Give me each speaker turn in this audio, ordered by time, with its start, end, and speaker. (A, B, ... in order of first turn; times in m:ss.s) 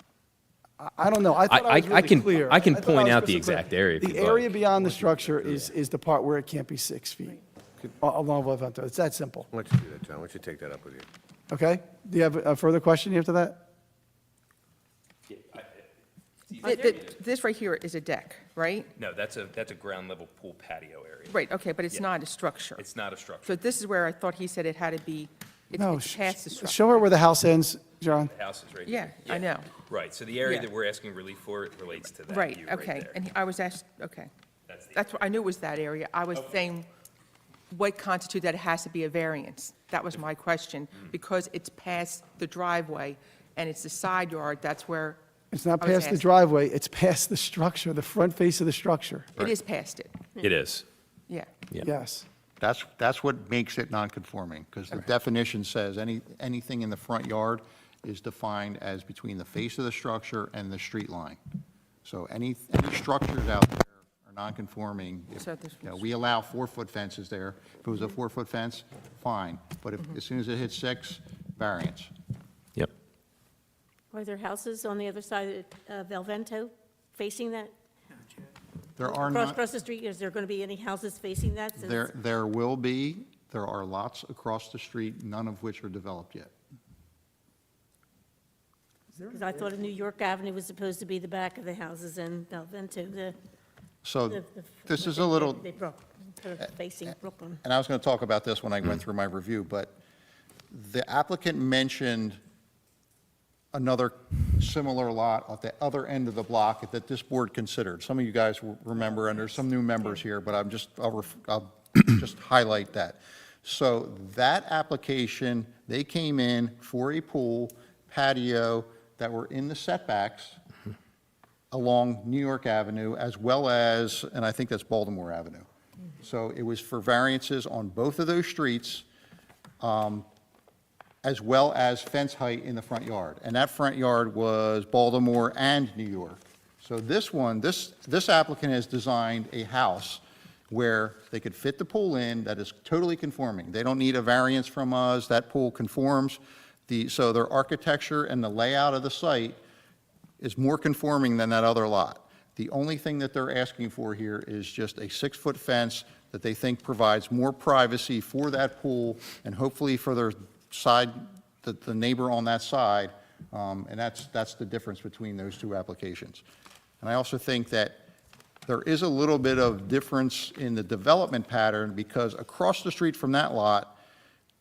0:00.8-0:07.4 A
0:01.5-0:04.6 B
0:05.1-0:05.6 C
0:08.0-0:09.5 A
0:09.5-0:11.1 C
0:11.5-0:13.6 A
0:16.5-0:17.1 B
0:16.6-0:18.9 D
0:19.0-0:21.4 B
0:21.3-0:22.8 D
0:22.8-0:23.6 B
0:23.4-0:27.0 D
0:25.8-0:28.3 A
0:28.1-0:33.2 B
0:28.9-0:29.7 D
0:32.3-0:34.3 D
0:34.9-0:36.9 D
0:37.7-0:45.2 D
0:45.5-0:49.3 A
0:45.8-0:46.3 D
0:49.4-0:50.2 D
0:50.4-0:50.8 B
0:51.8-0:52.3 A
0:52.6-1:01.4 E
1:02.0-1:12.1 E
1:05.4-1:06.0 D
1:14.1-1:17.7 F
1:19.0-1:19.6 E
1:19.0-1:22.1 F
1:21.8-1:26.5 E
1:29.2-1:33.4 F
1:34.0-1:35.7 E
1:34.3-1:37.6 F
1:37.1-1:40.0 E
1:40.7-1:42.4 E
1:43.7-2:00.6 E
2:01.7-2:05.7 E
2:06.2-2:09.1 E
2:09.8-2:10.3 E
2:11.2-2:29.6 E
2:30.4-2:46.4 E
2:47.0-2:48.0 E
2:48.7-2:54.0 E